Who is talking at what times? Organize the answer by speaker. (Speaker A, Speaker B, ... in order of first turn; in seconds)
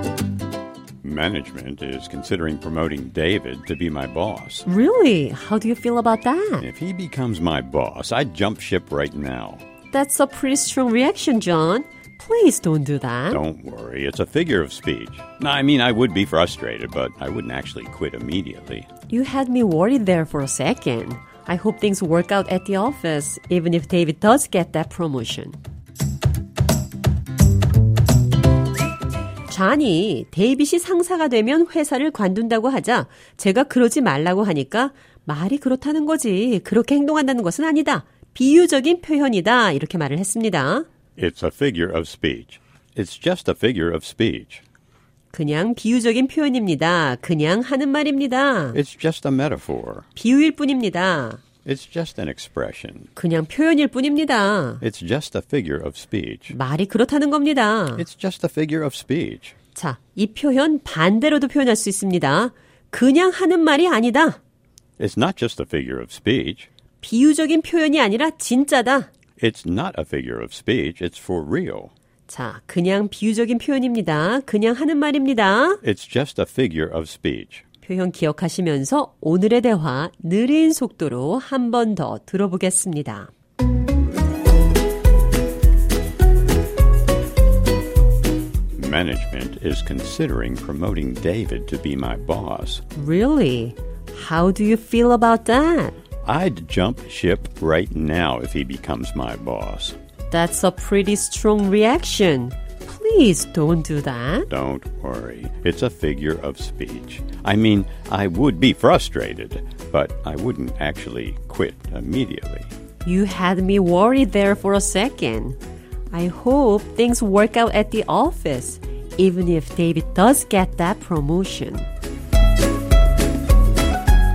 Speaker A: 1.0-4.7, 6.6-9.6, 13.3-18.9, 41.2-44.6, 48.7-50.1, 51.6-53.1, 54.8-56.6, 58.0-59.5, 65.0-66.7, 69.4-71.9, 75.8-77.6, 88.8-92.8, 96.2-100.0, 104.5-112.7
Speaker B: 4.7-6.7, 9.9-13.4, 19.1-25.6, 29.5-40.9, 45.3-48.8, 50.2-51.4, 53.2-54.8, 56.5-58.0, 59.8-64.4, 67.0-69.1, 72.3-75.8, 77.8-83.3, 93.0-96.0, 100.3-104.5, 113.0-115.6, 116.1-121.9